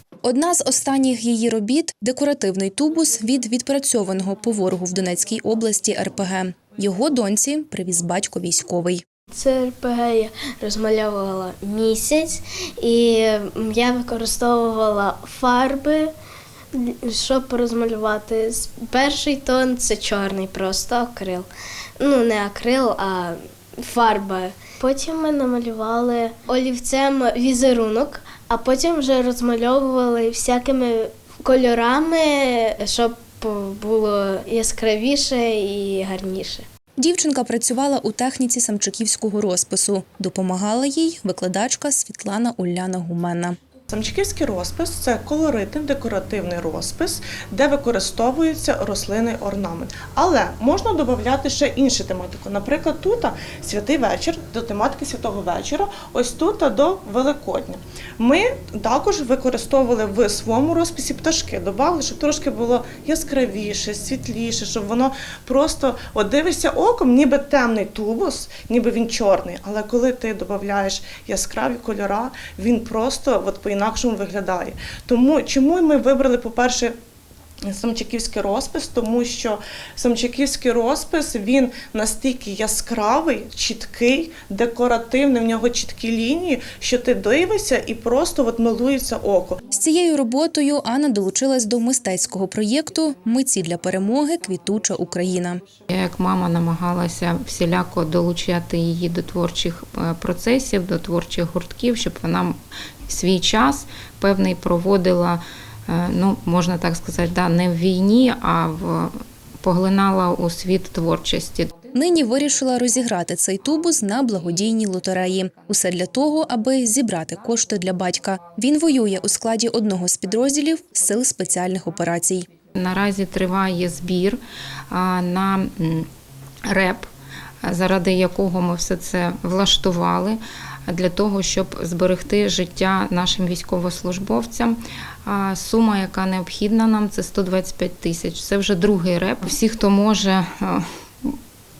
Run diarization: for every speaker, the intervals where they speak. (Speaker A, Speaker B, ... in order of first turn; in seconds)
Speaker A: 0.2-9.0, 37.0-43.6, 89.7-95.6, 111.9-122.5
Speaker B: 9.3-16.1, 16.7-21.5, 22.0-36.6
Speaker C: 43.9-77.0, 77.6-89.6
Speaker D: 95.9-111.8, 122.8-126.1, 126.7-127.1, 127.6-141.4